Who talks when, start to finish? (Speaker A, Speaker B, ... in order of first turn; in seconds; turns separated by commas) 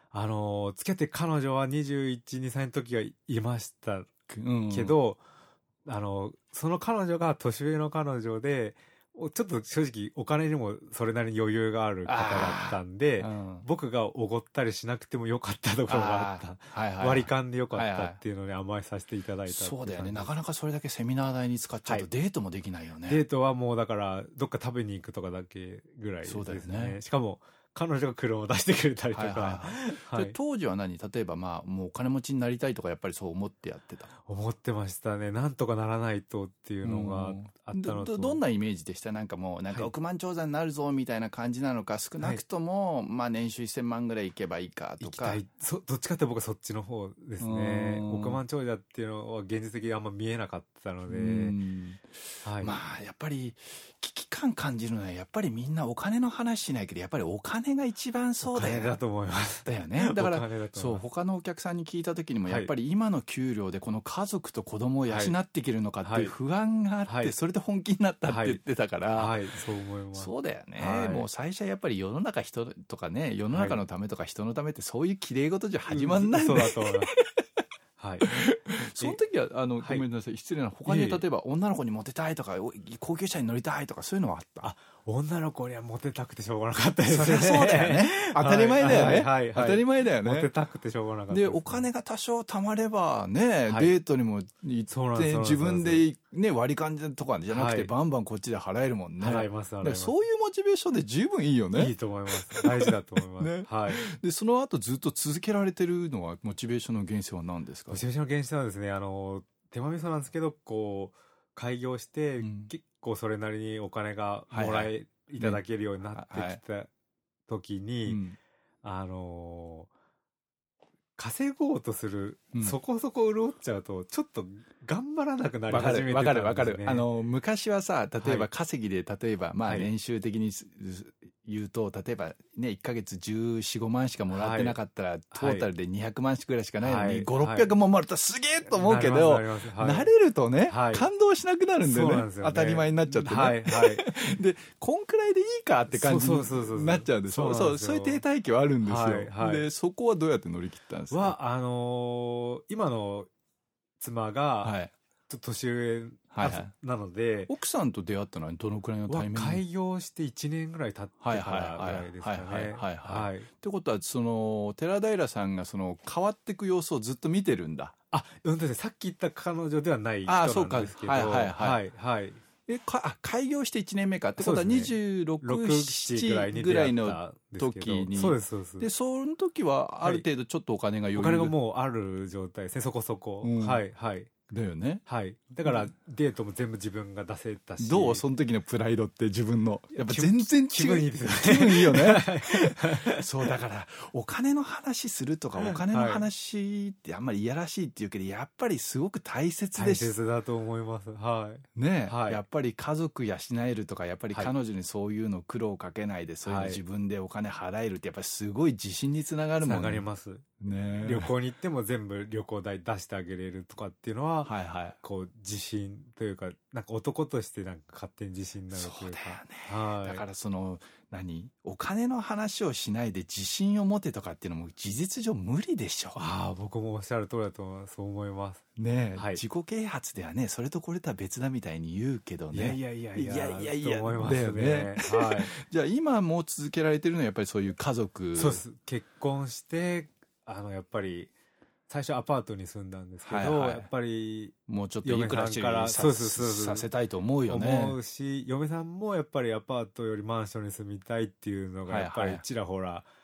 Speaker A: 0.1-4.1, Speaker B: 4.3-5.0, Speaker A: 4.7-5.2, Speaker A: 5.9-20.3, Speaker B: 12.1-13.7, Speaker B: 15.9-18.2, Speaker B: 19.5-23.2, Speaker A: 23.1-30.4, Speaker B: 26.2-27.0, Speaker B: 29.1-34.1, Speaker A: 34.2-38.4, Speaker B: 36.8-45.4, Speaker A: 45.0-51.6, Speaker B: 47.4-48.4, Speaker B: 51.1-59.0, Speaker A: 52.4-52.8, Speaker A: 58.4-61.0, Speaker B: 59.6-69.4, Speaker A: 65.1-65.3, Speaker A: 66.0-66.3, Speaker A: 67.1-67.3, Speaker A: 68.3-68.6, Speaker A: 69.2-71.3, Speaker B: 70.2-77.4, Speaker A: 73.5-73.8, Speaker A: 75.9-77.1, Speaker A: 78.0-78.5, Speaker B: 78.2-84.7, Speaker A: 80.9-81.2, Speaker A: 84.6-91.9, Speaker B: 87.1-90.5, Speaker B: 91.3-101.9, Speaker A: 93.7-93.9, Speaker A: 94.9-96.0, Speaker A: 97.5-97.9, Speaker A: 99.2-100.1, Speaker A: 101.7-104.0, Speaker B: 102.5-108.0, Speaker A: 107.9-116.9, Speaker B: 112.4-112.7, Speaker B: 114.5-116.6, Speaker A: 117.5-118.2, Speaker B: 118.1-118.4, Speaker A: 118.8-119.9, Speaker A: 121.2-127.1, Speaker B: 122.5-122.8, Speaker B: 125.7-151.3, Speaker A: 128.2-128.5, Speaker A: 134.3-134.8, Speaker A: 135.3-135.7, Speaker A: 136.8-137.7, Speaker A: 138.7-140.1, Speaker A: 140.7-141.1, Speaker A: 141.8-144.1, Speaker A: 145.9-148.2, Speaker A: 148.8-149.7, Speaker A: 151.1-153.3, Speaker A: 154.0-154.8, Speaker B: 154.6-154.9, Speaker A: 155.3-157.5, Speaker B: 156.3-156.7, Speaker B: 157.5-159.6, Speaker A: 159.1-163.5, Speaker B: 161.2-167.9, Speaker A: 168.1-172.4, Speaker B: 170.3-171.8, Speaker B: 172.7-181.6, Speaker A: 174.4-178.9, Speaker A: 181.1-184.3, Speaker B: 183.4-183.8, Speaker B: 184.5-185.0, Speaker A: 185.1-188.2, Speaker B: 187.8-200.2, Speaker A: 190.0-193.5, Speaker A: 195.6-196.3, Speaker A: 199.8-202.4, Speaker B: 201.8-210.1, Speaker A: 206.4-206.8, Speaker A: 209.6-210.4, Speaker B: 210.6-211.3, Speaker A: 211.0-220.2, Speaker B: 214.4-215.0, Speaker B: 218.7-226.3, Speaker A: 226.2-228.6, Speaker B: 228.8-238.6, Speaker A: 229.2-229.4, Speaker A: 232.5-235.5, Speaker A: 238.4-241.3, Speaker A: 241.9-246.9, Speaker B: 243.2-243.9, Speaker B: 244.7-248.0, Speaker A: 247.5-253.1, Speaker B: 251.9-252.4